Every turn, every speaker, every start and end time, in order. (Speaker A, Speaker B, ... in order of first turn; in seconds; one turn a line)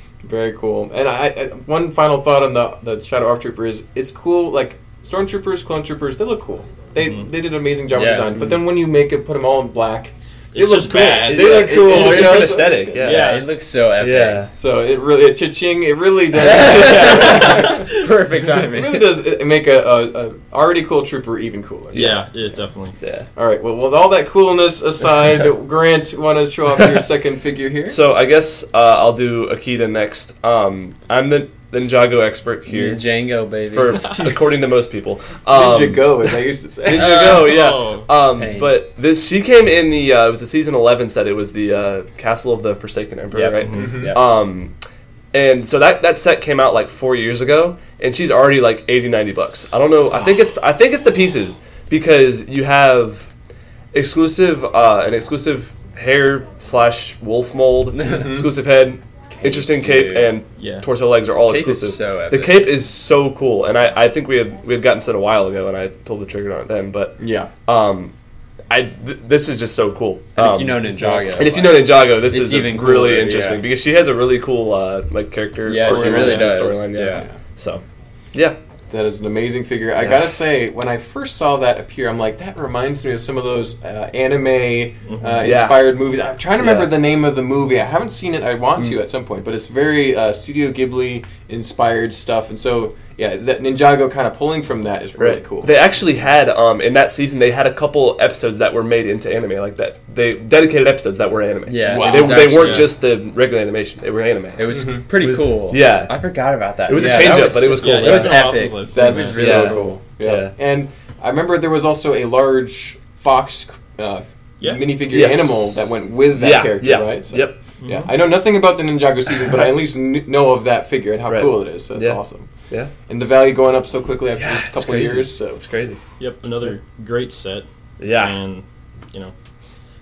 Speaker A: 0.2-13.0
Speaker B: 7.0-7.3
Speaker C: 7.9-8.3
Speaker B: 10.5-13.5
Speaker D: 10.6-13.4
Speaker C: 13.0-14.5
Speaker D: 14.0-14.5
Speaker A: 14.5-17.9
Speaker C: 16.4-19.1
Speaker D: 16.7-17.3
Speaker A: 18.6-22.4
Speaker B: 21.9-23.0
Speaker D: 21.9-22.2
Speaker D: 23.0-23.3
Speaker A: 23.4-28.0
Speaker D: 27.9-33.1
Speaker C: 32.7-34.2
Speaker D: 33.7-44.8
Speaker A: 35.5-37.4
Speaker C: 36.9-37.7
Speaker B: 37.2-38.1
Speaker C: 38.3-38.8
Speaker C: 43.3-44.2
Speaker B: 43.6-43.9
Speaker A: 43.7-44.1
Speaker D: 45.3-53.3
Speaker D: 53.9-68.1
Speaker A: 58.0-58.5
Speaker C: 59.3-60.4
Speaker B: 60.6-60.9
Speaker C: 61.4-62.6
Speaker A: 67.2-67.5
Speaker D: 68.7-78.6
Speaker C: 70.4-73.6
Speaker A: 71.2-71.8
Speaker C: 75.6-77.4
Speaker A: 75.8-76.5
Speaker A: 78.9-95.7
Speaker B: 85.1-85.5
Speaker D: 85.4-85.9
Speaker D: 86.6-86.9
Speaker D: 95.2-106.2
Speaker C: 101.7-102.9
Speaker A: 101.9-102.5
Speaker B: 102.1-102.9
Speaker C: 104.6-110.0
Speaker A: 104.7-105.0
Speaker D: 106.9-108.5
Speaker B: 107.8-109.6
Speaker A: 108.9-122.5
Speaker D: 109.3-110.5
Speaker B: 114.6-114.9
Speaker D: 115.1-115.7
Speaker D: 116.3-117.6
Speaker B: 117.8-118.1
Speaker D: 121.3-122.2
Speaker A: 123.1-125.6
Speaker D: 124.4-126.0
Speaker B: 126.2-129.3
Speaker D: 128.0-128.4